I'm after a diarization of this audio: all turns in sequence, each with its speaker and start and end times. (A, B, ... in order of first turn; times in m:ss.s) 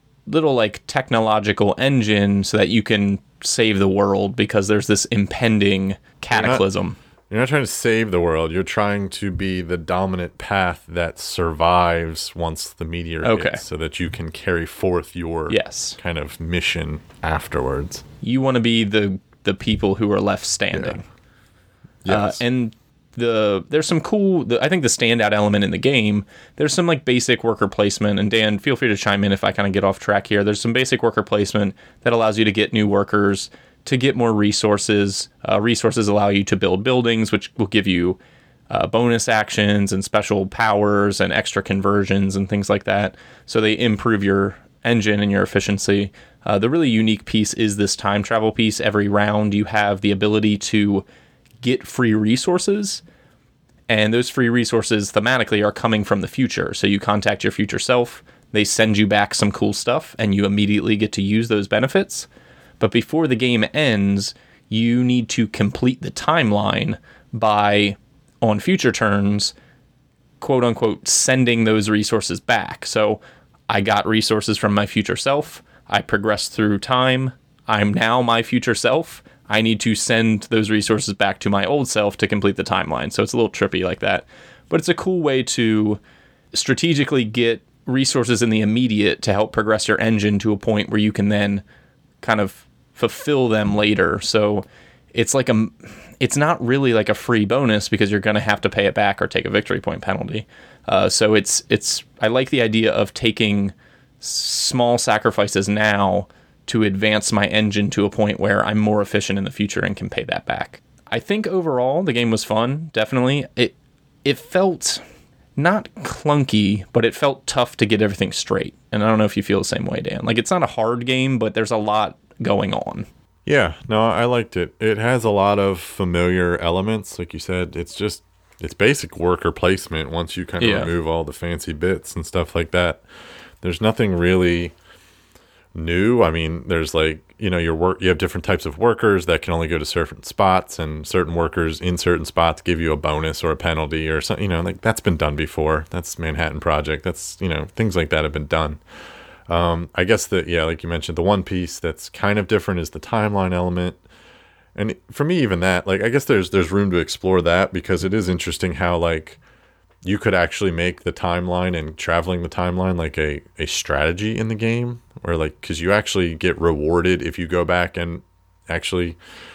0:00.3-0:07.0 A
0:06.3-0:06.6 B
0:07.3-0:18.0 B
0:13.2-0:13.6 A
0:15.5-0:16.0 A
0:18.2-0:21.0 A
0:20.7-0:21.0 B
0:22.0-0:22.4 B
0:22.1-0:38.2 A
0:38.7-0:51.0 A
0:51.6-0:53.0 A
0:53.9-1:02.3 A
1:02.8-1:09.5 A
1:10.4-1:26.0 A
1:26.5-1:31.6 A
1:32.2-1:53.7 A
1:54.2-1:55.0 A
1:55.6-2:03.1 A
2:03.5-2:13.0 B
2:10.6-2:10.9 A
2:13.6-2:14.7 B
2:15.7-2:28.8 B
2:29.5-2:34.0 B
2:34.8-2:39.4 B
2:40.0-2:49.2 B